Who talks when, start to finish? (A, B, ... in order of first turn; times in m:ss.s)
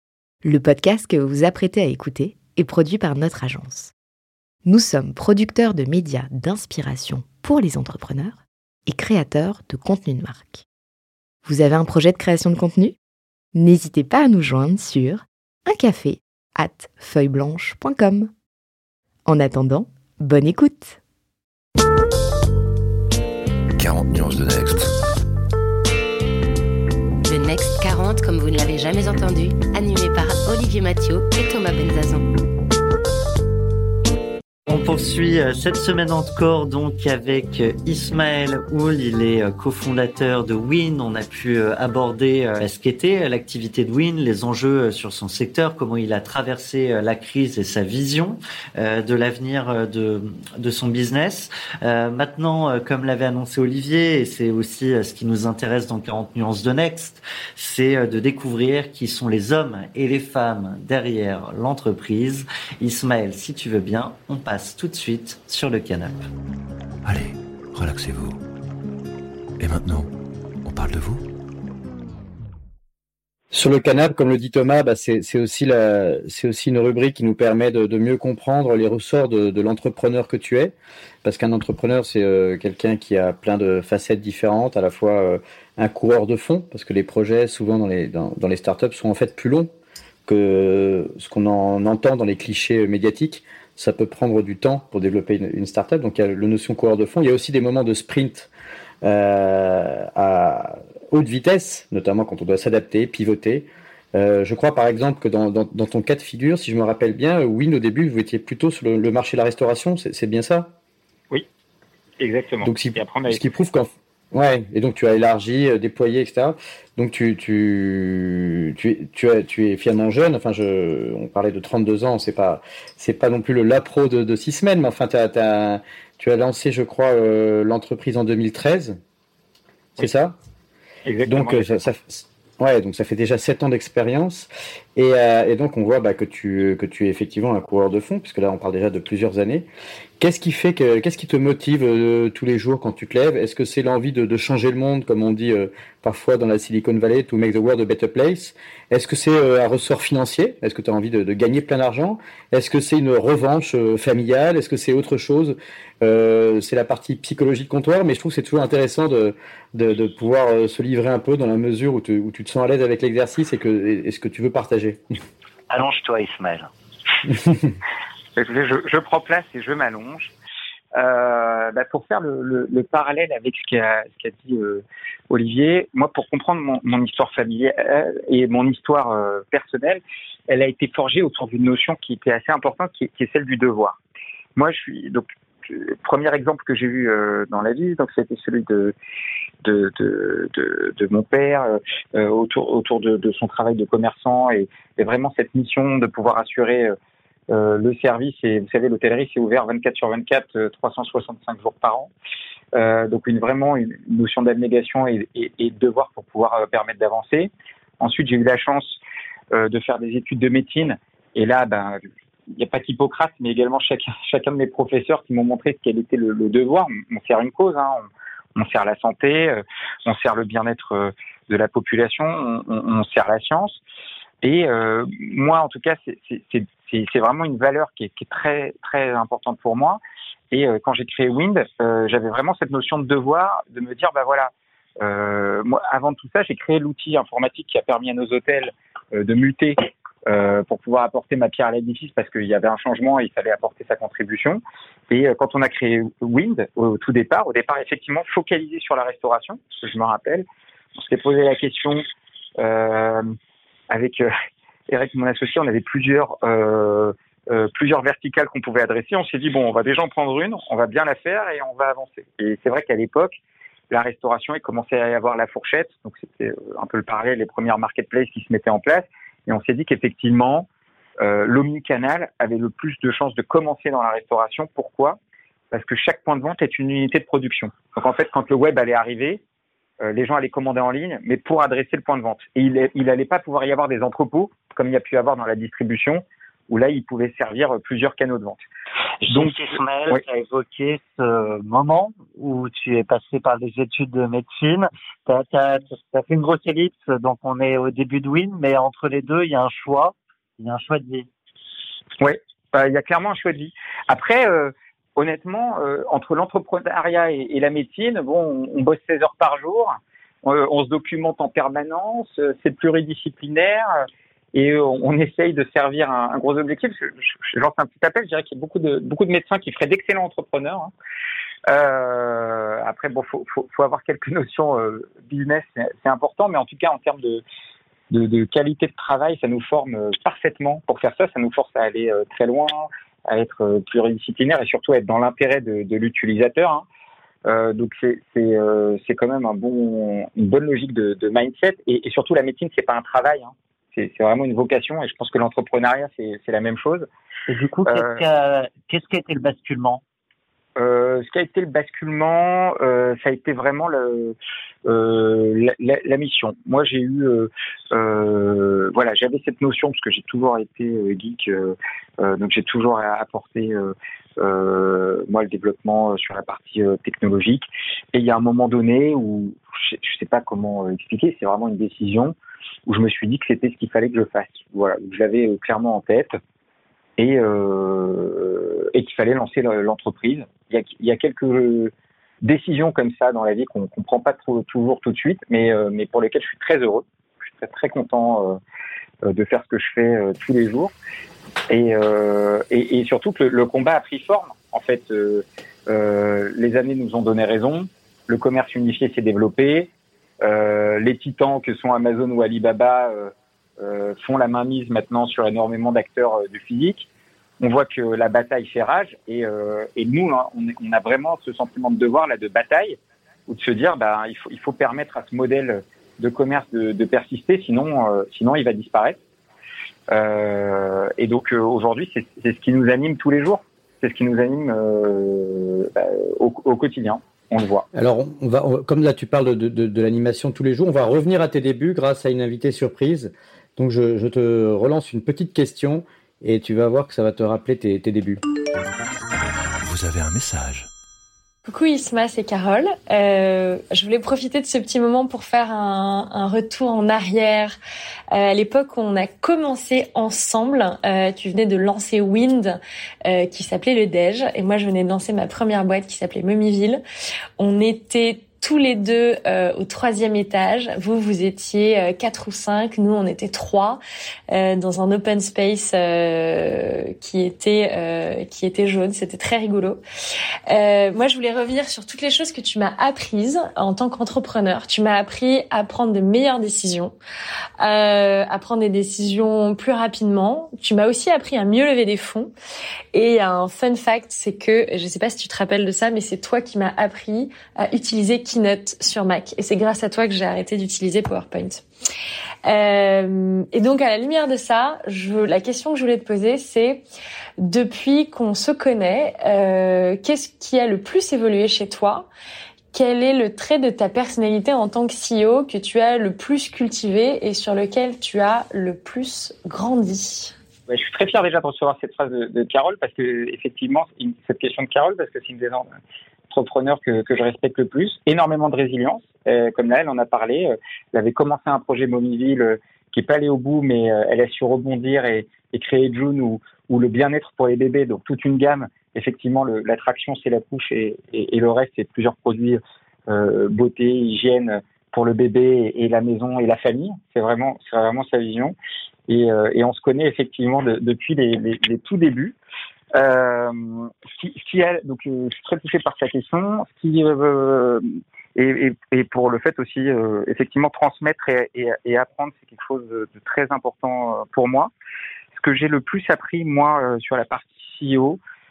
0:00.4-0:03.9 A
0:04.6-0:10.6 A
0:11.4-0:13.0 A
0:13.5-0:18.3 A
0:19.2-0:21.0 A
0:23.8-0:24.9 B
0:27.2-0:32.2 C
0:34.7-1:06.2 D
1:07.0-1:08.4 B
1:09.6-1:10.1 B
1:10.6-1:11.2 B
1:13.5-1:29.7 E
1:30.2-1:38.5 E
1:39.0-1:50.7 E
1:52.2-1:53.5 F
1:52.6-2:09.0 E
2:10.0-2:10.4 E
2:11.0-2:11.8 F
2:11.2-2:19.7 E
2:20.2-2:45.0 E
2:45.7-2:46.7 G
2:48.4-2:50.3 F
2:50.9-3:04.0 F
3:04.6-3:08.9 F
3:09.6-3:17.0 F
3:17.5-3:22.1 F
3:22.7-3:29.0 F
3:29.5-3:32.0 F
3:32.5-3:43.8 F
3:44.4-4:10.4 F
4:11.0-4:12.0 F
4:12.6-4:13.2 F
4:13.9-4:14.3 F
4:14.9-4:23.4 F
4:23.9-4:30.7 F
4:31.2-4:35.2 F
4:35.7-4:39.4 F
4:40.0-4:48.6 F
4:49.2-5:01.3 G
4:49.3-4:49.6 F
5:02.2-5:20.9 F
5:21.7-5:27.4 F
5:28.1-5:36.8 F
5:37.4-5:47.0 F
5:47.5-5:50.0 G
5:47.8-5:48.2 F
5:50.8-6:12.4 F
6:12.9-6:16.4 F
6:17.2-6:28.6 F
6:29.2-6:30.9 F
6:31.7-6:39.9 F
6:40.4-6:47.1 F
6:47.6-6:59.2 F
7:00.1-7:07.8 F
7:07.9-7:18.4 E
7:19.8-7:20.9 B
7:21.6-7:27.8 H
7:28.3-7:37.0 H
7:37.6-7:50.0 H
7:50.7-7:57.1 H
7:57.8-8:02.5 H
8:03.1-8:11.8 H
8:12.6-8:17.0 H
8:17.6-8:22.3 H
8:22.9-8:30.5 H
8:30.9-8:35.9 F
8:36.5-8:58.7 F
8:59.3-9:02.6 F
9:03.1-9:08.0 F
9:08.6-9:14.9 F
9:15.5-9:18.4 F